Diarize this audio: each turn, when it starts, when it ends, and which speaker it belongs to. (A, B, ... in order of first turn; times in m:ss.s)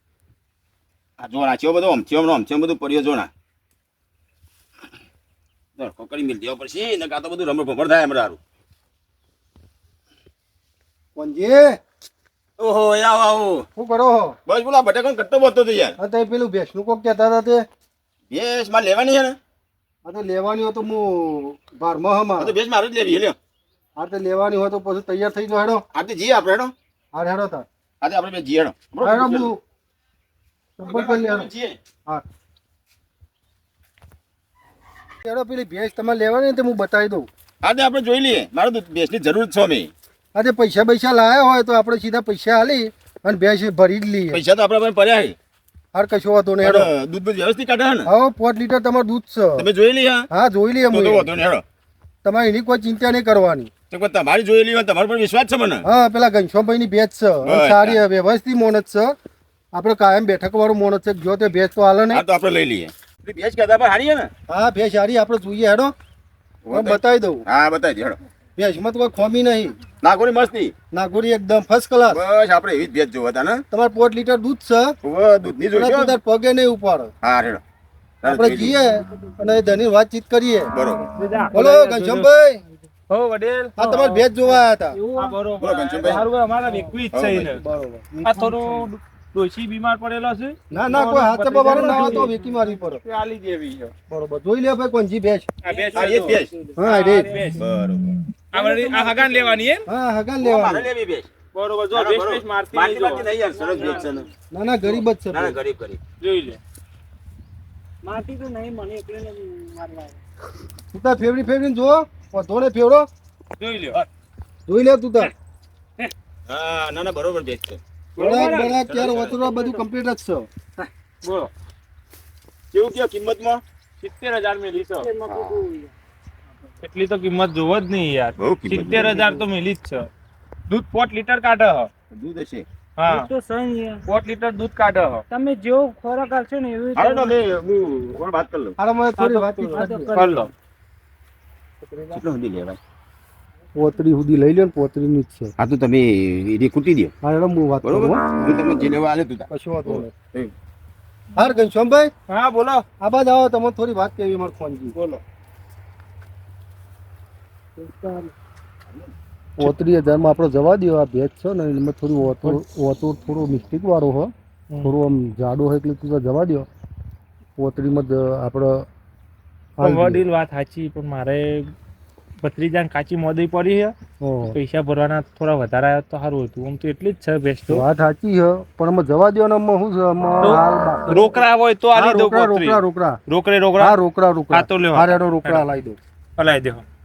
0:01.2-0:03.3 A
0:05.8-0:08.4 A
0:11.2-0:11.8 B
0:12.6-0:13.6 A
0:13.8-0:14.4 B
0:14.5-0:16.0 A
0:16.0-0:17.6 B
0:18.3-0:19.4 A
0:20.0-0:22.5 B
0:22.4-0:23.4 A
0:24.0-0:25.8 B
0:25.9-0:26.7 A
0:27.1-0:27.6 B
0:28.0-0:29.5 A
0:29.0-0:29.6 B
0:30.8-0:31.5 B
0:30.8-0:31.8 A
0:35.2-0:37.3 B
0:37.6-0:39.9 A
0:40.3-0:44.4 B
0:44.3-0:45.4 A
0:45.9-0:46.9 B
0:46.6-0:48.1 A
0:48.0-0:49.7 B
0:49.6-0:50.3 A
0:50.3-0:51.4 B
0:50.8-0:51.6 A
0:52.2-0:53.7 B
0:53.9-0:55.8 A
0:55.8-0:59.2 B
0:57.4-0:58.0 A
0:59.7-1:02.2 B
1:02.1-1:04.3 A
1:04.5-1:05.9 B
1:06.6-1:08.2 A
1:06.7-1:07.4 B
1:08.6-1:09.8 B
1:10.0-1:10.7 A
1:10.9-1:12.2 B
1:12.1-1:13.6 A
1:13.7-1:15.0 B
1:15.0-1:16.2 A
1:15.7-1:17.1 B
1:17.2-1:17.6 A
1:18.2-1:18.7 A
1:18.2-1:20.7 B
1:19.0-1:19.3 C
1:20.7-1:21.1 A
1:21.1-1:22.3 D
1:21.5-1:22.6 B
1:23.1-1:24.0 D
1:23.8-1:25.0 B
1:23.8-1:24.2 C
1:24.9-1:25.3 C
1:25.2-1:27.6 D
1:25.6-1:26.2 A
1:26.6-1:27.0 C
1:27.1-1:27.6 A
1:27.6-1:28.1 B
1:28.2-1:28.8 C
1:28.2-1:33.9 D
1:30.7-1:33.0 B
1:31.7-1:32.4 C
1:34.1-1:35.5 B
1:35.6-1:37.7 D
1:35.6-1:37.2 C
1:35.9-1:36.5 A
1:36.8-1:37.4 B
1:37.6-1:38.2 A
1:38.3-1:39.9 D
1:38.5-1:39.6 C
1:39.9-1:40.9 B
1:40.4-1:41.3 A
1:41.5-1:43.3 D
1:41.9-1:44.3 A
1:43.5-1:44.3 C
1:44.5-1:45.6 B
1:44.8-1:46.0 A
1:46.2-1:46.6 D
1:48.0-1:50.2 C
1:50.9-1:53.1 B
1:53.6-1:54.0 D
1:54.7-1:55.3 B
1:56.5-1:57.8 A
1:58.2-1:58.8 D
1:58.2-2:00.5 B
1:58.8-1:59.6 A
2:01.2-2:01.5 D
2:02.7-2:03.6 A
2:04.0-2:05.1 D
2:05.0-2:05.9 C
2:05.3-2:05.6 A
2:06.8-2:10.1 D
2:08.4-2:09.4 A
2:10.7-2:11.9 D
2:12.1-2:12.6 A
2:13.0-2:13.3 D
2:13.0-2:14.0 C
2:14.0-2:15.2 D
2:15.3-2:17.3 C
2:17.0-2:18.8 A
2:18.8-2:20.2 B
2:19.2-2:20.5 D
2:19.7-2:20.5 C
2:21.8-2:22.2 D
2:22.1-2:22.8 A
2:23.7-2:25.5 B
2:25.6-2:27.1 A
2:27.2-2:28.9 B
2:27.8-2:30.5 A
2:29.5-2:30.1 B
2:31.4-2:32.1 B
2:32.3-2:32.8 D
2:33.0-2:34.9 B
2:34.9-2:35.2 D
2:37.8-2:38.3 C
2:39.6-2:46.7 B
2:42.2-2:42.6 D
2:47.6-2:48.8 B
2:49.8-2:50.2 B
2:49.8-2:51.7 D
2:52.4-2:53.9 D
2:54.2-2:54.6 B
2:54.5-2:57.8 D
2:57.7-3:01.4 B
3:00.4-3:04.0 D
3:01.9-3:03.2 B
3:03.8-3:06.0 B
3:04.5-3:05.7 D
3:06.4-3:06.8 D